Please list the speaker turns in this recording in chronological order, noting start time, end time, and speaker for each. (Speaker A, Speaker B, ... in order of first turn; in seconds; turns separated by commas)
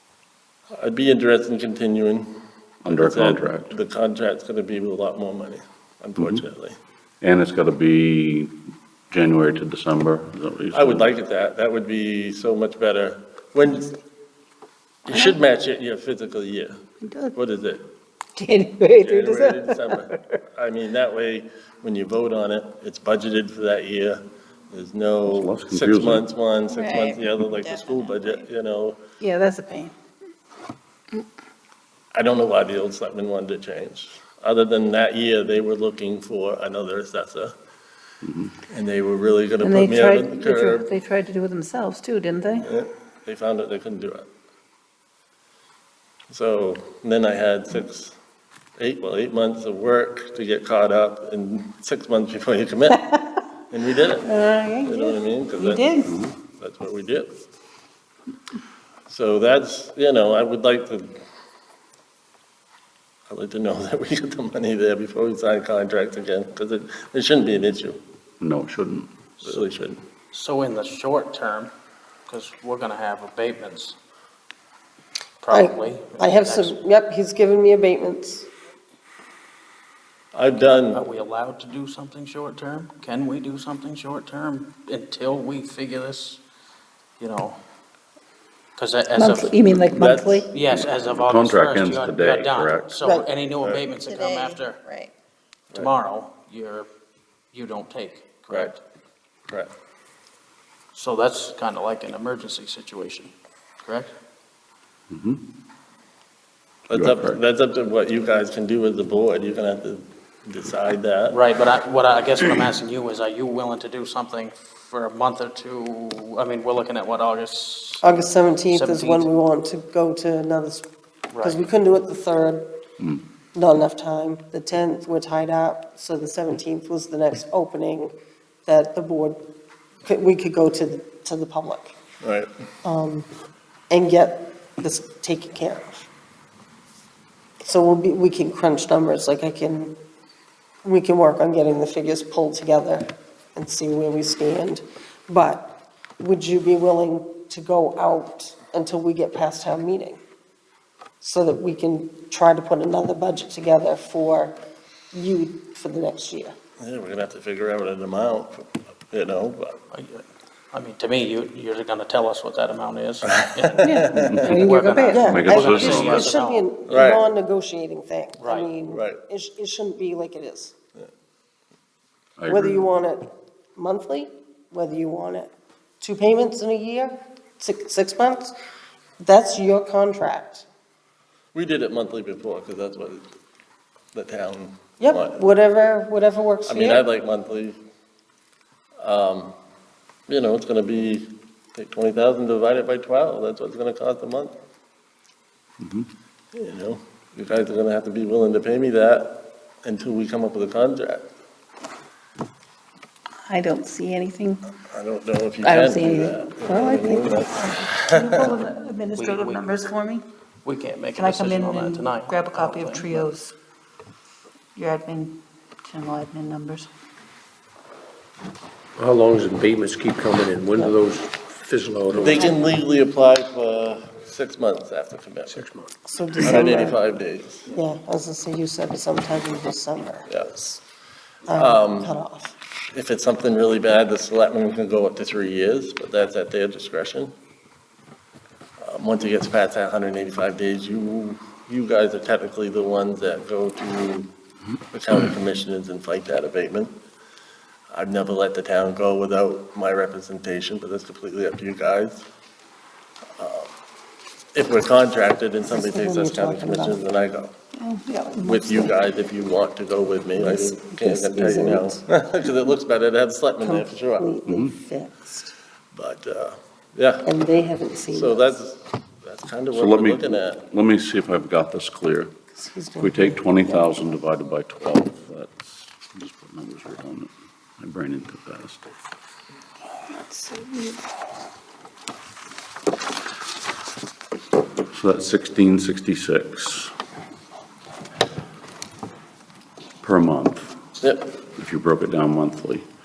Speaker A: 0.7-2.3, Speaker B: 2.8-3.7, Speaker A: 2.9-6.8, Speaker B: 6.2-6.4, Speaker B: 7.2-8.5, Speaker B: 9.1-11.1, Speaker A: 10.7-13.9, Speaker A: 15.1-16.8, Speaker C: 15.1-15.3, Speaker C: 17.0-17.3, Speaker A: 17.3-17.9, Speaker C: 18.4-20.2, Speaker A: 19.0-29.0, Speaker B: 25.3-26.3, Speaker D: 26.7-28.4, Speaker C: 29.2-29.9, Speaker A: 32.1-37.5, Speaker B: 38.2-38.5, Speaker A: 38.7-40.9, Speaker C: 39.6-42.7, Speaker A: 42.6-44.3, Speaker A: 46.3-48.1, Speaker A: 48.8-53.2, Speaker C: 52.9-53.2, Speaker A: 53.7-57.3, Speaker C: 54.2-56.1, Speaker B: 56.0-56.3, Speaker A: 59.1-61.2, Speaker A: 63.3-68.0, Speaker B: 68.4-69.1, Speaker A: 69.4-70.0, Speaker E: 70.3-71.7, Speaker E: 72.3-74.0, Speaker E: 75.4-76.8, Speaker F: 75.5-78.5, Speaker A: 80.3-81.0, Speaker E: 80.6-86.4, Speaker E: 87.2-87.6, Speaker E: 88.8-94.8, Speaker C: 89.1-90.5, Speaker A: 89.9-90.4, Speaker B: 90.7-93.0, Speaker F: 93.0-93.3, Speaker A: 93.6-93.8, Speaker D: 94.0-95.1, Speaker E: 95.7-96.9, Speaker E: 97.5-98.8, Speaker E: 100.9-103.3, Speaker E: 103.8-104.1, Speaker B: 105.1-105.4, Speaker A: 106.9-111.4, Speaker B: 106.9-107.4, Speaker E: 111.3-119.3, Speaker F: 118.0-120.9, Speaker E: 121.3-121.6, Speaker F: 121.4-122.7, Speaker F: 123.5-128.1, Speaker F: 128.7-129.4, Speaker F: 130.0-131.9, Speaker A: 132.2-132.5, Speaker F: 132.8-133.3, Speaker F: 133.9-136.1, Speaker F: 137.6-139.9, Speaker F: 140.8-150.2, Speaker F: 151.2-154.6, Speaker F: 155.1-156.5, Speaker A: 156.8-159.8, Speaker E: 159.9-166.7, Speaker A: 163.6-164.3, Speaker C: 163.8-165.3, Speaker F: 165.1-170.7, Speaker B: 165.2-166.3, Speaker A: 165.8-166.1, Speaker A: 166.9-167.2, Speaker E: 168.4-168.7, Speaker A: 168.8-169.2, Speaker B: 172.4-172.8, Speaker F: 172.5-178.5, Speaker F: 179.2-180.7, Speaker A: 181.5-183.2, Speaker A: 184.1-185.4, Speaker F: 185.0-187.0, Speaker A: 186.7-187.8, Speaker A: 189.0-189.5, Speaker A: 190.3-194.5, Speaker B: 195.8-196.1, Speaker A: 196.5-201.3, Speaker C: 203.5-204.7, Speaker A: 204.8-208.6, Speaker C: 205.6-210.2, Speaker E: 209.1-209.8, Speaker E: 210.6-213.2, Speaker C: 211.1-213.5, Speaker C: 214.8-216.9, Speaker G: 219.0-222.4, Speaker A: 222.1-225.7, Speaker G: 225.5-225.9, Speaker F: 226.0-227.0, Speaker A: 226.4-227.7, Speaker F: 227.7-230.8, Speaker A: 230.3-230.5, Speaker F: 231.5-232.5, Speaker A: 231.5-232.1, Speaker A: 232.9-237.3, Speaker A: 238.8-244.3, Speaker A: 244.9-246.9, Speaker A: 247.9-252.2, Speaker A: 253.4-253.7, Speaker A: 254.5-257.5, Speaker F: 255.7-257.0, Speaker C: 257.8-258.7, Speaker A: 258.4-264.3, Speaker F: 260.4-262.0, Speaker F: 263.6-265.5, Speaker B: 264.5-264.7, Speaker A: 265.9-267.3, Speaker F: 267.2-268.6, Speaker A: 268.1-270.6, Speaker B: 269.7-272.3, Speaker F: 272.5-274.0, Speaker B: 273.0-278.9, Speaker F: 280.2-280.6, Speaker B: 284.9-286.9, Speaker B: 290.0-290.8, Speaker A: 291.0-291.3, Speaker B: 291.5-292.9